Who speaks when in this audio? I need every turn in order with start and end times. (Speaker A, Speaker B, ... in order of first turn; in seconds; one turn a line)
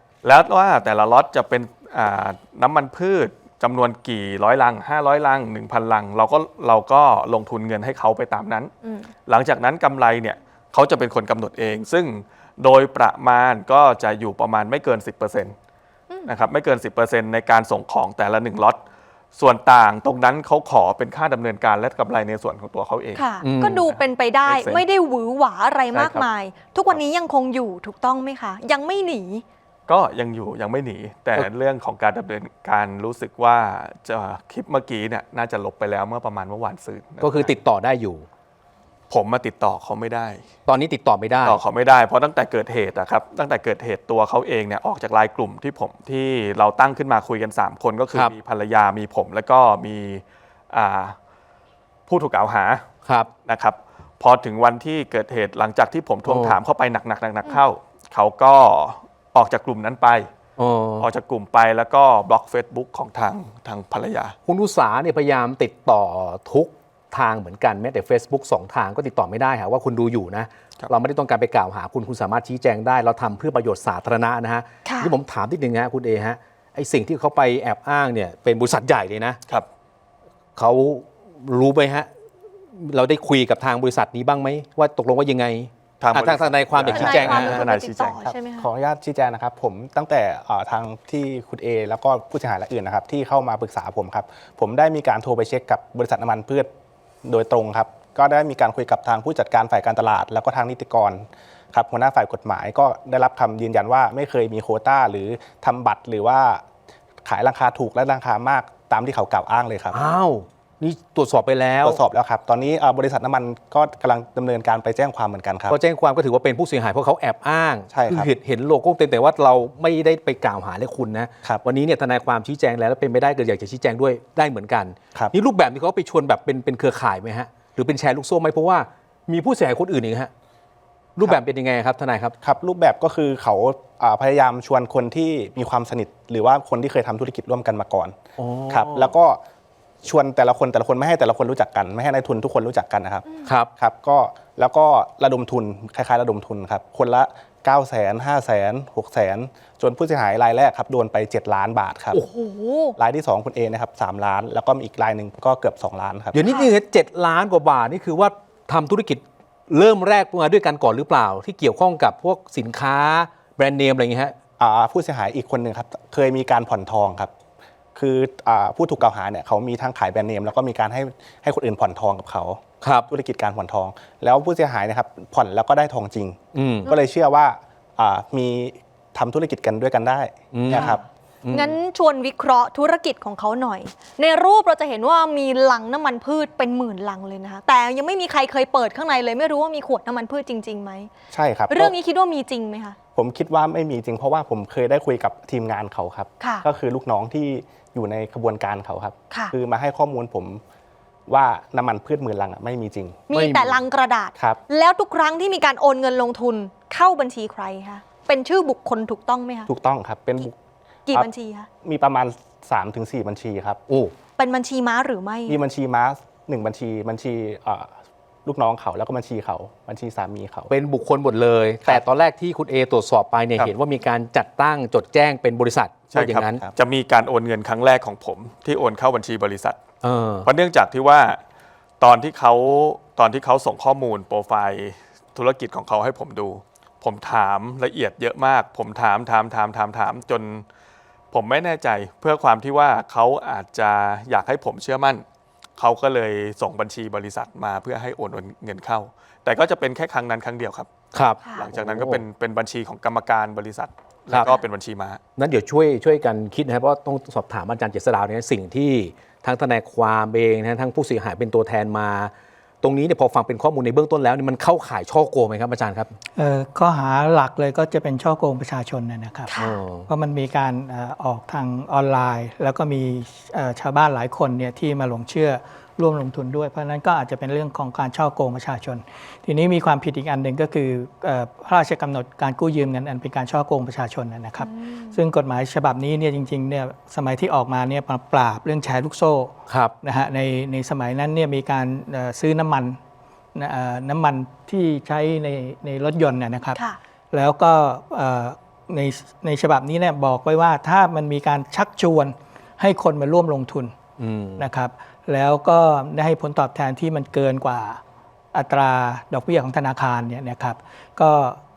Speaker A: 0.2-8.7
Speaker B: 8.8-9.1
Speaker A: 9.3-15.6
Speaker A: 16.2-18.8
Speaker A: 19.3-24.8
Speaker B: 23.1-29.4
Speaker C: 23.4-23.9
Speaker A: 25.9-26.3
Speaker A: 29.9-37.5
Speaker C: 37.2-38.2
Speaker A: 39.1-40.5
Speaker C: 40.7-41.6
Speaker A: 41.4-51.2
Speaker A: 52.1-52.9
Speaker A: 53.5-60.3
Speaker C: 56.2-56.6
Speaker C: 60.6-61.1
Speaker A: 61.0-64.4
Speaker C: 64.5-79.4
Speaker B: 74.8-75.1
Speaker C: 80.5-82.1
Speaker C: 82.7-87.6
Speaker A: 86.0-88.2
Speaker B: 86.9-88.7
Speaker D: 88.3-96.7
Speaker D: 97.2-106.6
Speaker D: 107.2-110.1
Speaker C: 109.9-112.0
Speaker D: 111.8-115.8
Speaker C: 115.7-130.3
Speaker D: 117.9-118.3
Speaker C: 131.2-132.3
Speaker D: 132.4-139.4
Speaker C: 138.4-139.1
Speaker D: 140.0-152.2
Speaker B: 152.1-152.9
Speaker D: 153.0-156.4
Speaker C: 156.3-164.3
Speaker B: 156.4-156.8
Speaker D: 164.6-167.3
Speaker D: 167.9-181.0
Speaker C: 172.8-173.1
Speaker C: 176.5-176.9
Speaker C: 180.5-181.7
Speaker B: 180.7-191.1
Speaker D: 191.3-191.9
Speaker B: 191.7-193.0
Speaker D: 193.1-200.6
Speaker B: 196.4-196.7
Speaker D: 201.3-203.3
Speaker B: 203.3-209.7
Speaker C: 203.3-203.8
Speaker D: 209.7-210.5
Speaker B: 211.1-211.7
Speaker D: 211.8-213.8
Speaker C: 213.9-214.1
Speaker B: 214.4-215.6
Speaker D: 215.5-217.9
Speaker D: 218.4-220.7
Speaker C: 220.7-226.6
Speaker A: 226.1-229.8
Speaker C: 230.0-230.5
Speaker A: 230.4-231.4
Speaker A: 232.0-240.6
Speaker A: 241.3-245.2
Speaker A: 245.8-250.9
Speaker C: 251.1-252.2
Speaker A: 251.5-255.2
Speaker C: 255.4-266.1
Speaker E: 266.4-269.5
Speaker B: 269.5-269.8
Speaker C: 269.6-270.1
Speaker E: 270.1-293.0
Speaker B: 284.6-285.2
Speaker C: 289.7-289.9
Speaker E: 293.5-296.8
Speaker E: 297.3-303.9
Speaker C: 304.2-304.6
Speaker E: 304.6-308.0
Speaker E: 308.5-311.6